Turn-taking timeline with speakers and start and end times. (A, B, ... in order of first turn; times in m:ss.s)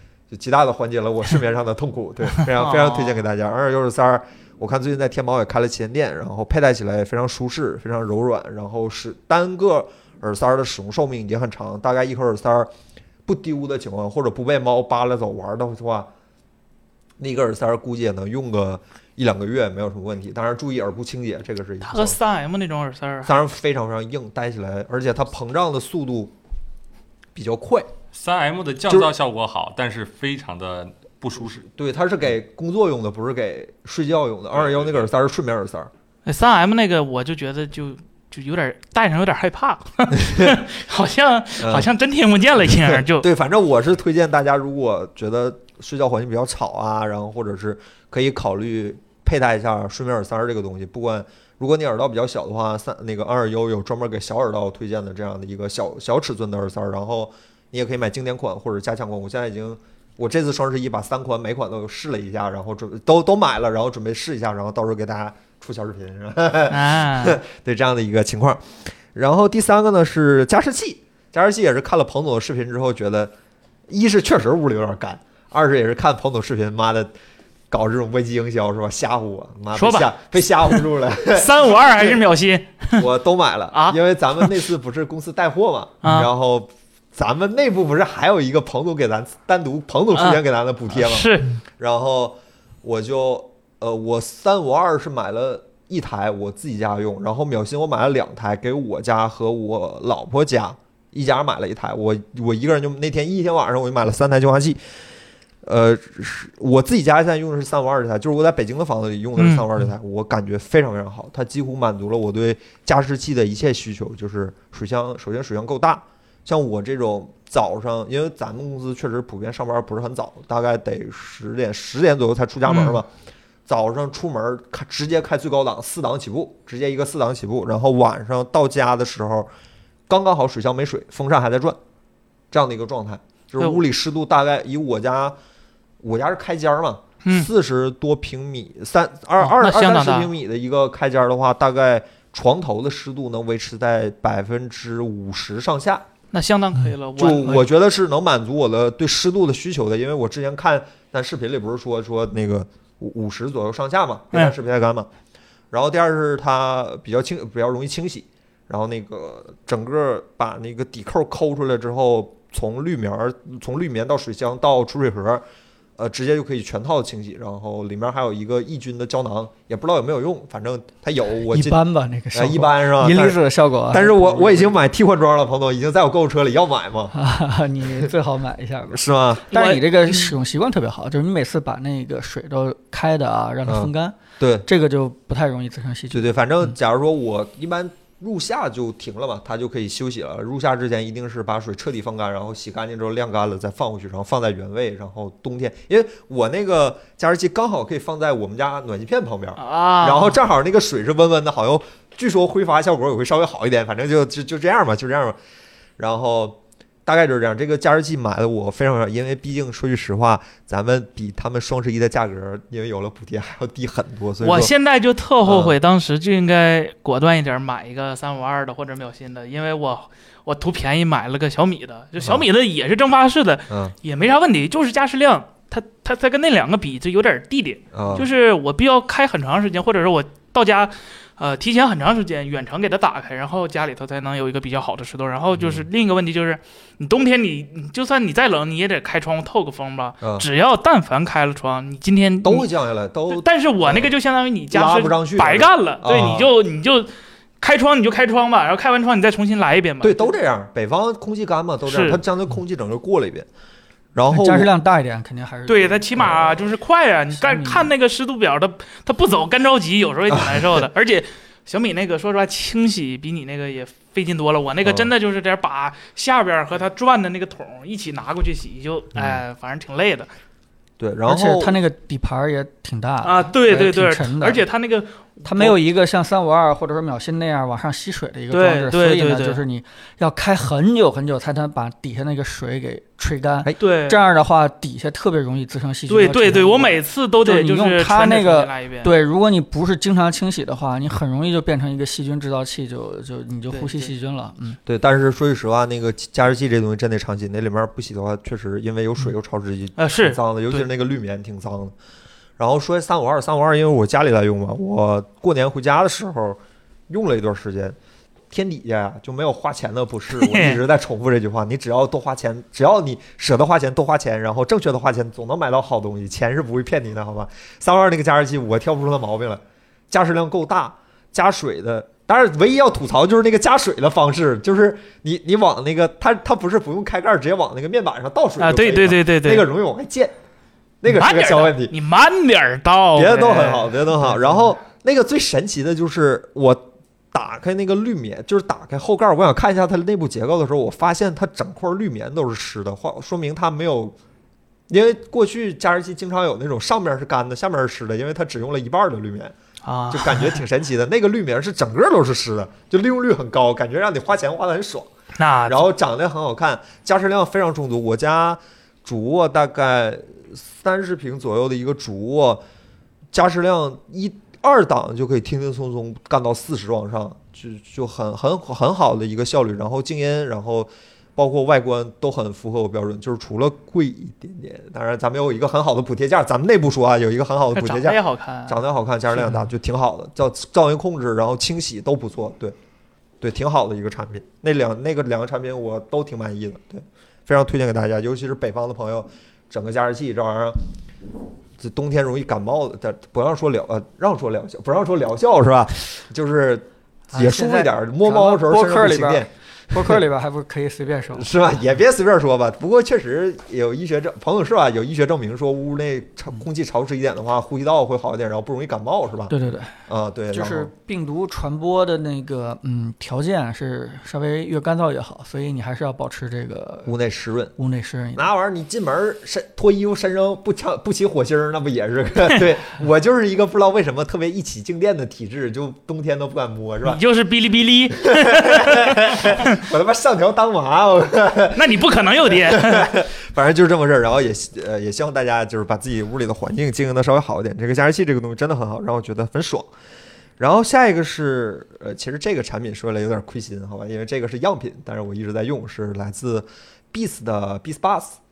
0:00.3-0:12.7 A
0:02.5-0:03.2 B
0:13.2-0:16.1 A
0:17.2-0:22.2 A
0:21.8-0:23.3 B
0:23.2-0:26.3 A
0:27.3-0:27.9 A
0:28.1-0:31.6 C
0:31.6-0:35.9 A
0:36.2-0:43.3 B
0:40.1-0:40.6 A
0:41.6-0:41.9 A
0:42.8-1:13.3 A
1:06.7-1:07.4 B
1:13.9-1:17.1 A
1:17.7-1:22.2 A
1:19.7-1:23.0 B
1:23.0-1:44.8 A
1:23.7-1:24.5 B
1:26.0-1:26.3 B
1:30.1-1:30.4 B
1:30.9-1:31.6 B
1:45.6-2:03.1 A
1:49.4-1:49.7 B
2:02.7-2:03.0 B
2:03.7-2:09.5 A
2:10.1-2:11.8 A
2:12.5-2:15.4 A
2:16.0-2:26.0 A
2:19.4-2:20.3 B
2:26.3-2:27.7 B
2:27.2-2:35.1 A
2:35.7-2:45.4 A
2:46.0-2:51.8 A
2:51.5-2:54.7 D
2:52.3-2:57.1 A
2:57.1-3:06.3 D
2:58.9-2:59.5 A
2:59.5-3:00.3 B
3:03.6-3:04.7 A
3:06.1-3:25.4 A
3:19.6-3:20.4 B
3:26.0-3:34.7 A
3:34.4-4:02.7 B
3:35.4-3:35.8 A
3:42.2-3:42.4 A
3:43.7-3:43.9 A
3:47.9-3:48.3 A
3:55.6-3:55.8 A
4:00.2-4:00.5 A
4:02.4-4:04.1 A
4:03.3-4:10.3 B
4:04.7-4:06.5 A
4:10.0-4:13.5 A
4:11.8-4:12.2 B
4:14.1-4:14.7 A
4:14.3-4:16.6 D
4:15.7-4:30.3 B
4:17.3-4:17.9 D
4:20.3-4:20.8 A
4:24.8-4:25.1 A
4:31.0-4:31.8 A
4:31.2-4:34.6 D
4:33.2-4:35.6 B
4:35.4-4:54.8 D
4:38.5-4:39.6 B
4:43.8-4:44.2 B
4:46.1-4:49.1 B
4:53.7-4:54.1 B
4:54.8-5:01.9 A
5:00.0-5:00.8 B
5:02.6-5:08.0 A
5:08.5-5:30.3 A
5:10.3-5:10.8 B
5:28.6-5:29.6 B
5:31.0-5:31.9 A
5:31.1-5:34.0 B
5:33.1-5:44.2 A
5:44.9-5:49.5 A
5:49.8-5:50.6 B
5:50.1-5:55.1 A
5:55.4-5:55.8 B
5:55.7-6:02.6 A
6:03.3-6:22.8 A
6:17.7-6:18.8 B
6:23.4-6:30.8 A
6:31.8-6:40.2 A
6:37.3-6:41.5 D
6:41.3-6:49.5 A
6:49.5-6:49.9 D
6:50.1-6:50.9 A
6:50.5-6:57.1 D
6:57.0-6:57.7 A
6:57.8-6:58.4 D
6:58.3-7:07.2 A
7:07.0-7:09.8 B
7:08.2-7:19.9 A
7:11.7-7:13.1 B
7:20.6-7:28.4 A